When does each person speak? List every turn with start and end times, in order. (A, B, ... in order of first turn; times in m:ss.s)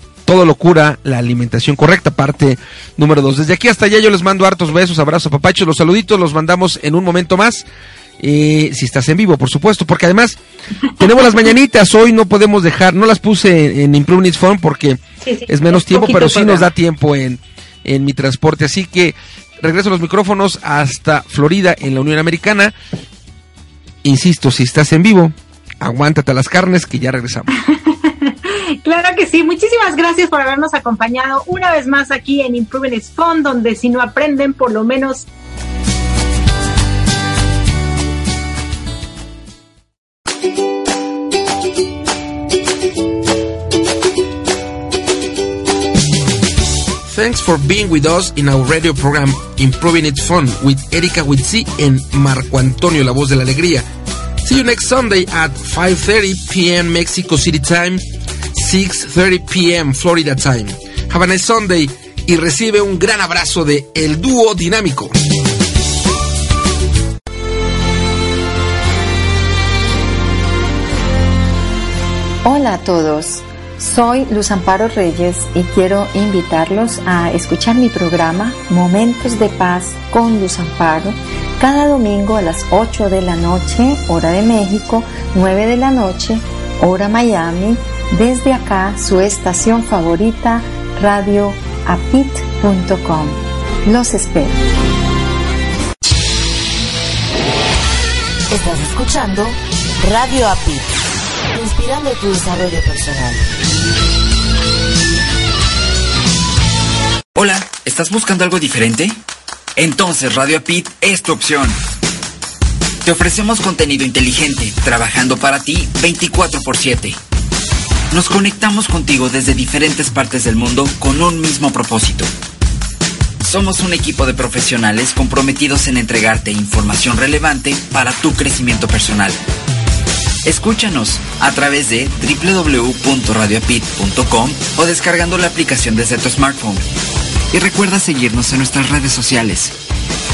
0:00.2-0:07.6 A
0:08.2-0:10.4 A
0:11.0-0:22.7 A
0:15.2-0:16.7 B
0:24.0-0:27.5 A
0:27.5-0:35.3 B
0:47.1-0:53.8 A
0:54.4-1:05.1 A
1:12.4-1:34.6 C
1:38.5-1:40.9 D
1:41.5-1:43.5 D
1:47.3-1:49.2 E
1:49.8-1:51.8 E
1:53.0-1:57.2 E
1:58.1-2:02.3 E
2:03.4-2:09.4 E
2:10.4-2:16.8 E
2:17.5-2:19.8 E